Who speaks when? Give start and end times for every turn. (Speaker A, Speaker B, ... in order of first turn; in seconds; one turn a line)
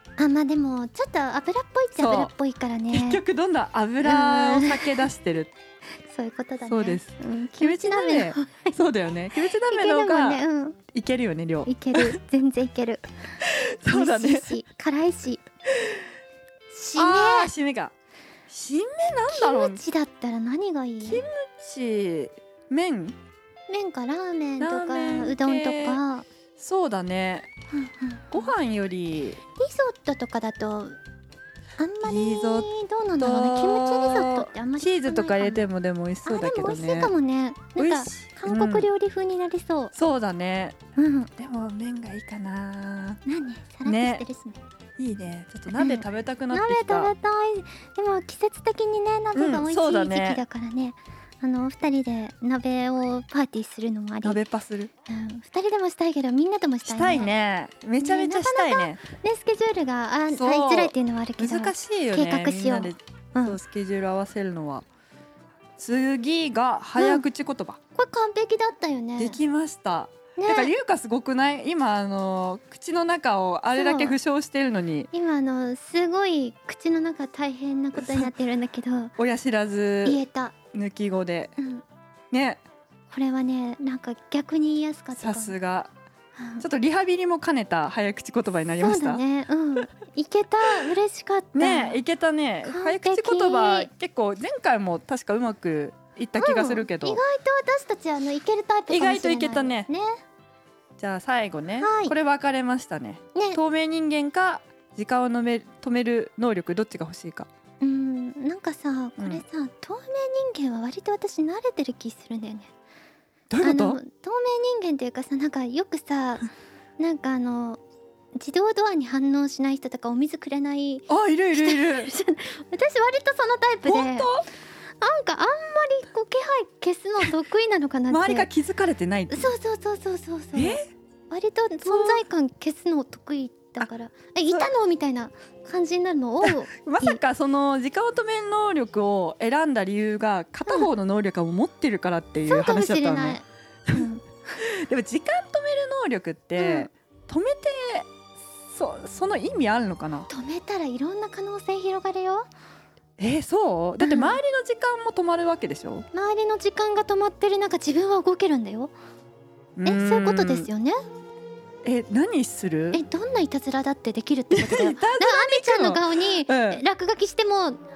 Speaker A: 0.2-3.2
Speaker B: 2.0-2.3
Speaker B: 2.9-5.5
Speaker A: 4.0-5.0
Speaker A: 6.1-8.8
Speaker B: 6.6-12.2
Speaker A: 9.4-10.8
Speaker A: 11.6-13.0
Speaker B: 13.4-14.5
Speaker A: 13.9-15.4
Speaker A: 16.7-17.5
Speaker B: 16.9-17.9
Speaker B: 18.5-19.8
Speaker A: 19.3-21.2
Speaker B: 21.0-23.1
Speaker A: 23.7-26.2
Speaker B: 24.6-26.0
Speaker B: 26.6-27.5
Speaker A: 27.7-28.5
Speaker B: 28.3-29.4
Speaker A: 29.6-30.9
Speaker A: 31.8-35.7
Speaker B: 32.0-37.1
Speaker A: 36.2-39.9
Speaker B: 37.8-38.9
Speaker B: 39.9-40.8
Speaker A: 41.0-41.3
Speaker B: 41.4-43.2
Speaker A: 43.2-44.6
Speaker B: 43.8-44.2
Speaker B: 45.0-47.1
Speaker A: 45.7-54.4
Speaker B: 49.3-50.4
Speaker B: 54.2-54.9
Speaker A: 55.1-57.3
Speaker B: 56.8-59.0
Speaker A: 58.0-63.6
Speaker B: 60.3-64.8
Speaker B: 65.8-67.8
Speaker A: 67.0-67.2
Speaker A: 67.9-69.4
Speaker B: 69.2-75.1
Speaker A: 70.4-70.7
Speaker A: 73.7-74.2
Speaker A: 75.1-79.1
Speaker B: 78.0-78.3
Speaker B: 79.2-80.2
Speaker A: 80.0-80.5
Speaker B: 80.7-81.5
Speaker A: 81.6-81.8
Speaker B: 82.3-82.6
Speaker A: 83.1-85.5
Speaker B: 85.2-85.9
Speaker A: 86.3-86.6
Speaker B: 86.6-89.2
Speaker A: 88.8-92.0
Speaker B: 91.5-97.2
Speaker A: 92.6-93.9
Speaker A: 96.4-100.2
Speaker B: 98.9-99.9
Speaker B: 101.0-107.5
Speaker A: 101.8-102.1
Speaker A: 107.8-112.7
Speaker B: 109.2-109.4
Speaker B: 113.5-114.0
Speaker A: 113.6-117.8
Speaker A: 118.3-124.3
Speaker B: 121.1-122.1
Speaker B: 123.8-124.5
Speaker A: 125.0-128.5
Speaker B: 128.1-129.5
Speaker A: 129.3-130.8
Speaker B: 130.5-130.9
Speaker A: 131.3-137.2
Speaker B: 131.8-132.2
Speaker B: 136.4-148.1
Speaker A: 142.5-144.2
Speaker A: 146.6-146.9
Speaker B: 148.7-150.3
Speaker A: 150.3-152.5
Speaker B: 153.2-156.1
Speaker A: 154.0-154.4
Speaker A: 156.1-158.9
Speaker B: 159.8-160.7
Speaker A: 159.8-161.0
Speaker B: 161.8-163.0
Speaker A: 162.9-167.8
Speaker B: 164.5-166.8